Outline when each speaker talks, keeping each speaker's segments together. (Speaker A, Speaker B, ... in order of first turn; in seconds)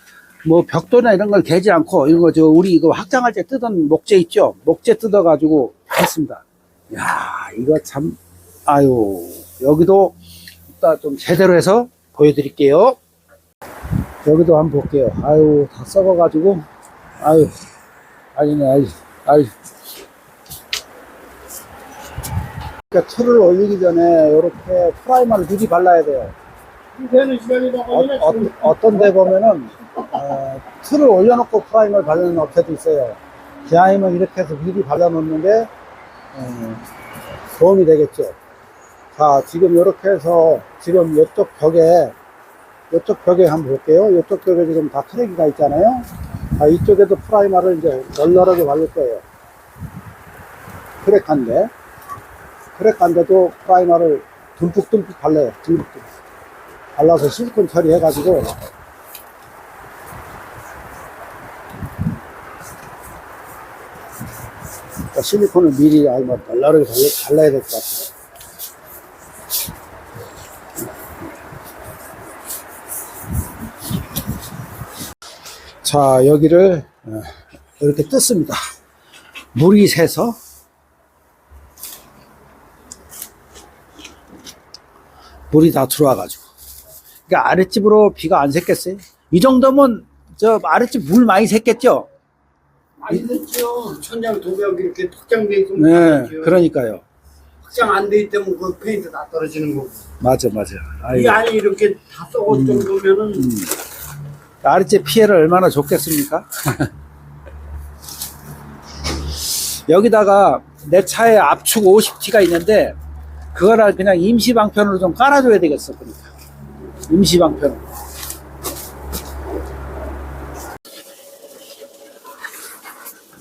Speaker A: 0.4-10.2, 10.8-13.0, 14.2-16.6, 17.2-17.5, 18.3-19.5, 22.9-26.3, 27.8-35.7, 36.3-36.8, 37.5-38.4, 39.1-42.1, 42.9-49.2, 51.0-51.7, 52.8-56.1, 57.0-58.6, 65.1-68.1, 75.8-78.6, 79.5-80.4, 85.5-86.4, 87.3-92.1, 95.8-97.0, 100.2-101.5, 102.5-103.7, 104.6-106.9, 109.4-113.0, 113.5-116.3, 117.1-117.8
Speaker B: 27.0-27.9, 93.0-96.5, 97.6-100.0, 101.1-103.4